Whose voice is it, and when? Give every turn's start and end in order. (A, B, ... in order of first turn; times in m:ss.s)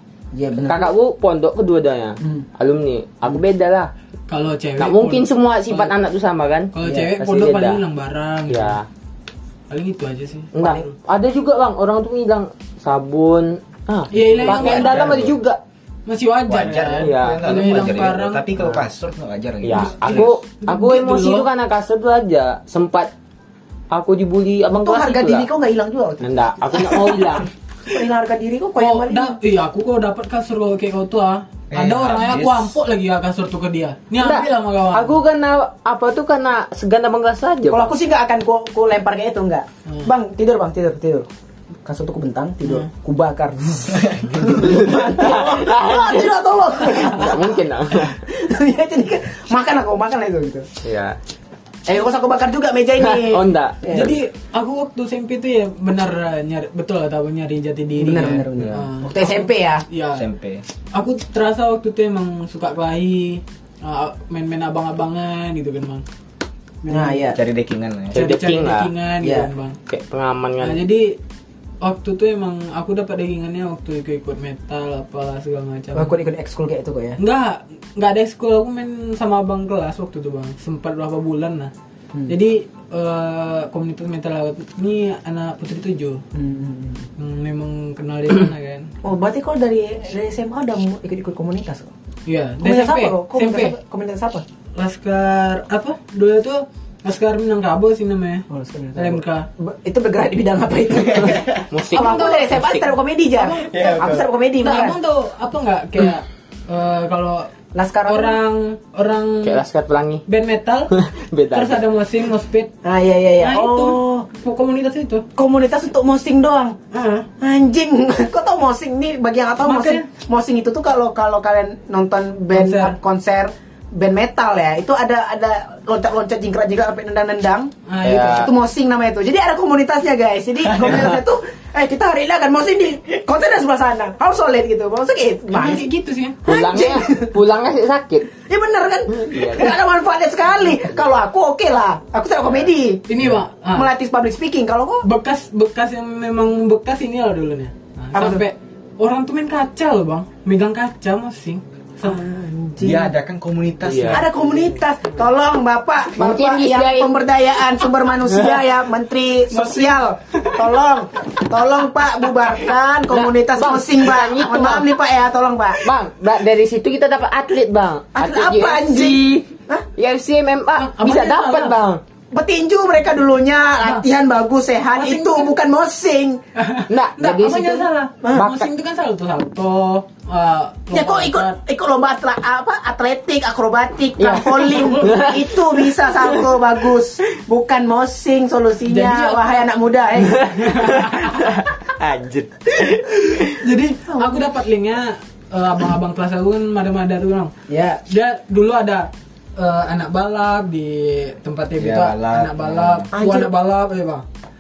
0:00.3-0:00.9 A
0:00.7-0:03.9 B
0:02.2-0:02.5 A
0:04.3-0:05.9 C
0:04.8-0:07.8 B
0:06.7-0:08.8 C
0:06.8-0:07.2 A
0:08.5-0:08.9 B
0:09.7-0:10.9 C
0:10.6-0:15.6 B
0:14.1-0:15.3 C
0:14.2-0:15.4 D
0:16.1-0:18.5 C
0:16.5-0:20.4 D
0:17.0-0:17.6 B
0:19.6-0:23.1 B
0:19.7-0:21.5 C
0:23.9-0:25.5 B
0:24.8-0:29.4 A
0:26.2-0:27.5 B
0:28.8-0:35.2 C
0:31.7-0:32.8 D
0:34.2-0:37.9 B
0:37.7-0:41.3 A
0:41.8-0:50.7 A
0:44.4-0:48.2 B
0:50.8-0:51.2 B
0:51.9-0:54.2 A
0:53.0-0:53.8 B
0:53.9-1:00.3 C
0:58.0-0:59.8 A
0:58.6-0:58.9 D
1:00.1-1:00.6 D
1:00.9-1:06.0 C
1:06.8-1:07.2 C
1:06.8-1:07.4 A
1:07.3-1:08.2 D
1:08.1-1:08.9 B
1:08.1-1:09.8 C
1:09.2-1:09.5 A
1:09.9-1:10.8 B
1:10.6-1:11.2 C
1:11.8-1:16.2 C
1:16.0-1:17.2 A
1:17.2-1:21.7 C
1:22.3-1:26.2 C
1:26.3-1:27.1 A
1:27.2-1:28.9 C
1:29.0-1:31.9 A
1:32.3-1:33.8 C
1:32.6-1:34.4 A
1:34.8-1:39.5 C
1:38.5-1:45.0 A
1:41.2-1:41.6 D
1:41.7-1:42.9 B
1:41.9-1:42.4 C
1:43.4-1:44.0 C
1:43.6-1:44.3 D
1:44.6-1:47.5 C
1:47.7-1:48.4 A
1:48.1-1:49.6 C
1:49.4-1:50.2 B
1:50.3-1:50.9 C
1:50.9-1:51.8 B
1:51.5-1:52.7 C
1:52.8-1:54.3 A
1:53.4-1:55.2 C
1:55.4-1:56.8 A
1:56.9-1:57.3 C
1:57.4-2:15.9 A
1:59.6-2:00.1 C
2:02.5-2:03.0 C
2:07.9-2:08.5 C
2:08.0-2:08.5 B
2:15.5-2:16.4 C
2:16.5-2:18.3 B
2:16.5-2:17.3 A
2:18.4-2:23.1 A
2:19.1-2:19.8 B
2:23.1-2:23.9 C
2:23.7-2:25.1 A
2:25.0-2:32.2 C
2:28.1-2:28.4 A
2:32.0-2:33.1 A
2:32.8-2:34.3 D
2:33.8-2:34.3 B
2:34.1-2:45.9 A
2:36.2-2:37.2 B
2:38.3-2:38.6 B
2:39.5-2:40.0 C
2:43.1-2:44.9 B
2:45.8-2:52.0 B
2:48.2-2:49.8 A
2:50.8-2:51.8 C
2:52.3-2:56.4 A
2:54.9-2:55.5 C
2:56.6-3:01.6 C
2:56.9-2:58.7 B
2:58.2-2:58.5 A
3:00.9-3:10.5 A
3:04.2-3:06.3 B
3:04.7-3:05.1 C
3:08.9-3:09.7 C
3:10.2-3:13.6 B
3:10.3-3:11.6 C
3:13.6-3:17.5 C
3:14.1-3:14.5 A
3:17.7-3:18.0 A
3:18.0-3:24.2 C
3:21.8-3:23.1 D
3:23.1-3:23.5 A